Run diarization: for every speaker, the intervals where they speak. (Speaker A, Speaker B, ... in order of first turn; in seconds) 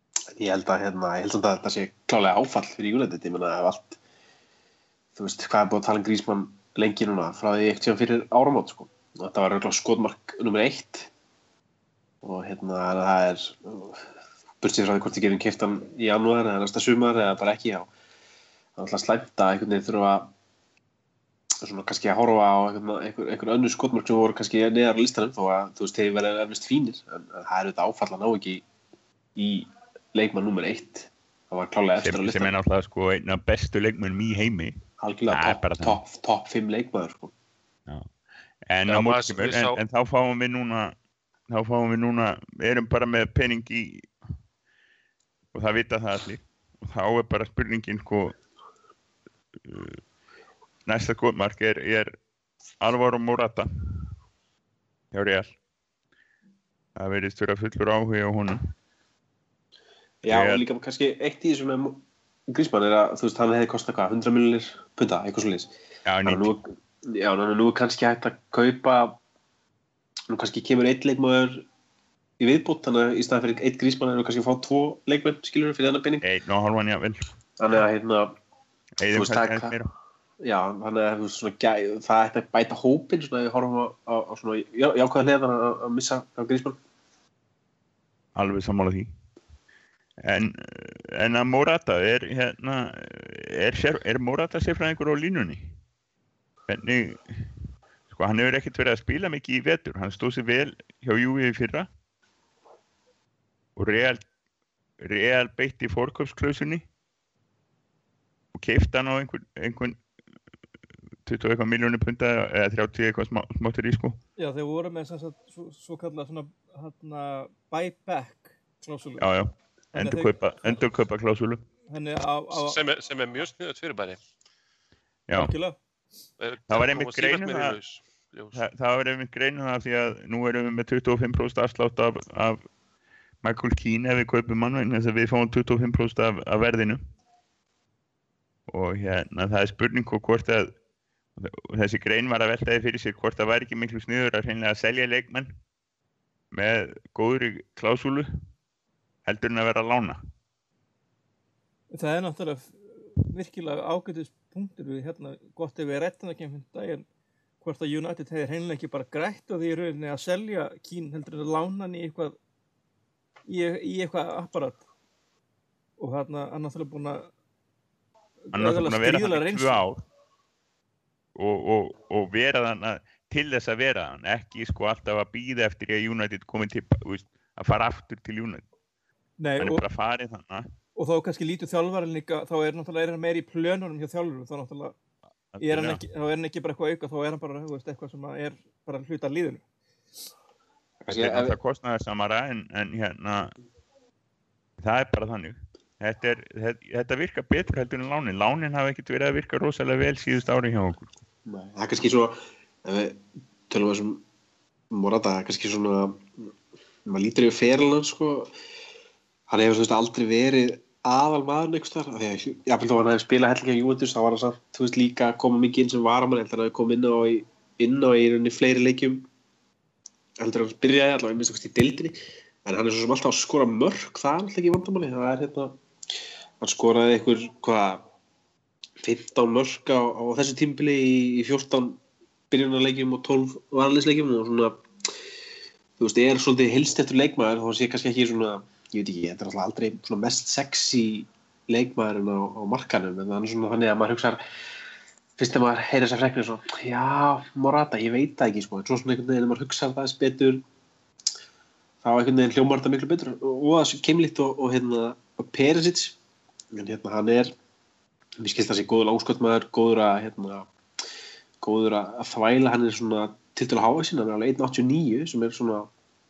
Speaker A: 0.3-4.0, 5.2-11.1, 12.2-14.0, 14.6-17.9, 18.8-20.3, 21.6-28.6, 29.3-32.5, 35.0-37.3, 60.2-65.7, 66.2-69.2, 70.3-71.7, 72.4-76.2, 77.6-78.3, 79.1-79.7, 80.4-86.8, 191.0-191.6, 201.4-204.2, 204.9-206.5, 207.0-208.5, 209.5-219.3, 220.4-225.8, 226.6-228.1, 229.0-234.8, 236.0-244.4, 245.4-250.6, 252.0-256.2, 256.7-257.5, 258.4-260.7, 261.6-265.9
Speaker B: 32.0-34.8, 35.3-36.0, 38.7-41.0, 41.5-44.1, 45.5-48.4, 49.6-50.0, 50.9-52.1, 52.8-54.1, 55.1-55.5, 57.0-58.6, 60.2-60.6, 66.0-66.5, 76.2-77.8, 79.0-79.9, 88.3-89.1, 90.2-95.7, 96.7-97.6, 98.1-101.9, 103.8-104.2, 105.0-106.8, 108.5-110.0, 111.2-114.2, 119.2-121.6, 125.3-125.5, 126.7-127.8, 128.5-132.6, 133.4-137.0, 138.7-140.7, 141.4-145.5, 146.5-148.3, 149.2-150.2, 168.5-170.0, 171.3-178.6, 179.6-180.7, 185.5-186.0, 191.1-193.5, 194.8-201.1
Speaker C: 38.9-39.8, 122.5-124.2, 126.4-128.6
Speaker D: 114.4-119.2, 119.9-120.4, 121.9-122.8, 125.3-125.8, 151.9-157.0, 157.6-162.3, 163.4-164.8, 166.0-167.3, 168.5-169.8, 179.4-179.8, 181.0-184.9, 185.6-189.6